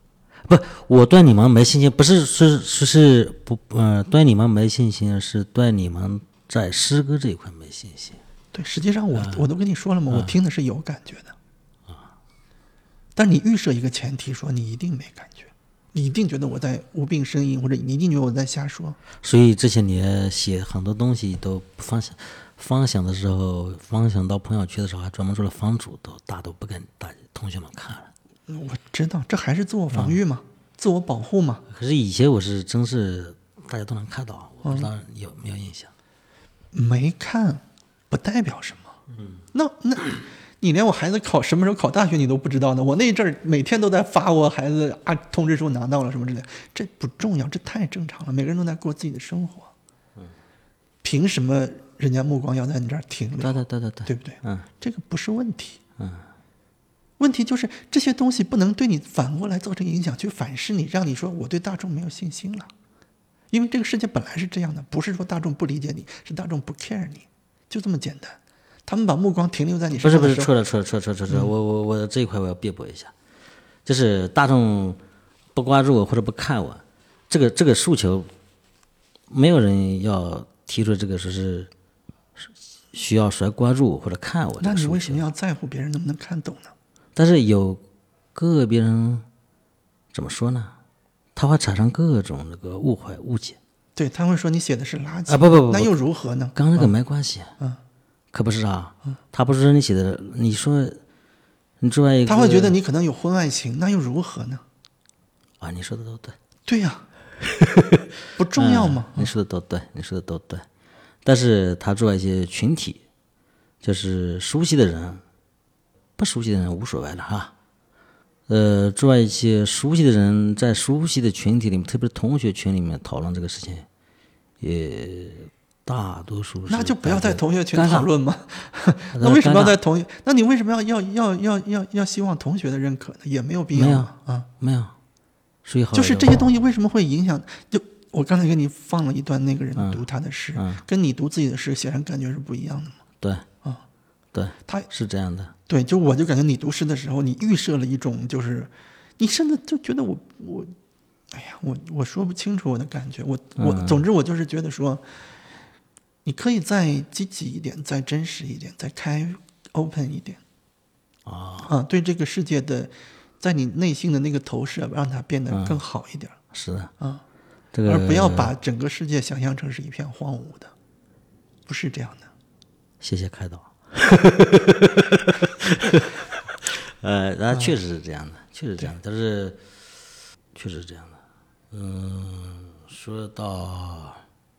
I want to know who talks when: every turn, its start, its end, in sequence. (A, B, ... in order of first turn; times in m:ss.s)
0:00.5-0:08.2 A
0:08.5-0:11.3 B
0:09.1-0:09.4 A
0:10.1-0:10.4 A
0:13.1-0:19.0 B
0:19.2-0:28.1 A
0:28.5-0:31.6 B
0:29.9-0:30.2 A
0:31.7-0:35.9 A
0:34.6-0:34.9 B
0:36.7-0:38.9 B
0:39.2-0:39.4 A
0:39.5-0:49.7 B
0:51.0-0:55.8 B
0:53.4-0:54.7 A
0:56.0-0:56.3 A
0:57.2-1:02.7 B
1:03.5-1:10.5 B
1:10.0-1:13.1 A
1:13.8-1:15.0 A
1:15.5-1:18.3 A
1:19.3-1:21.7 A
1:22.4-1:25.2 A
1:24.6-1:26.7 B
1:27.2-1:27.8 A
1:28.3-1:29.2 A
1:30.1-1:30.8 A
1:31.3-1:33.6 A
1:34.0-1:36.9 B
1:35.3-1:35.9 A
1:36.5-1:37.5 A
1:38.3-1:41.0 A
1:41.8-1:42.8 A
1:42.2-1:44.6 B
1:45.6-1:46.4 A
1:46.7-1:47.0 B
1:47.5-1:48.0 A
1:48.4-1:49.3 B
1:48.5-1:50.6 A
1:51.2-1:53.0 A
1:53.8-1:55.2 A
1:56.2-1:57.5 A
1:58.5-2:03.9 A
2:04.6-2:08.1 A
2:06.7-2:14.5 B
2:09.1-2:09.8 A
2:13.7-2:15.0 A
2:15.6-2:16.3 A
2:15.9-2:23.0 B
2:19.8-2:20.0 A
2:20.5-2:20.8 A
2:24.3-2:25.5 A
2:25.7-2:30.7 B
2:31.3-2:35.2 B
2:33.6-2:34.0 A
2:36.2-2:40.4 B
2:41.2-2:41.7 A
2:41.6-2:46.3 B
2:45.5-2:45.8 A
2:46.5-2:46.9 A
2:47.7-2:48.5 A
2:47.8-2:50.7 B
2:51.7-2:52.3 B
2:53.0-2:59.6 A
3:00.5-3:04.2 A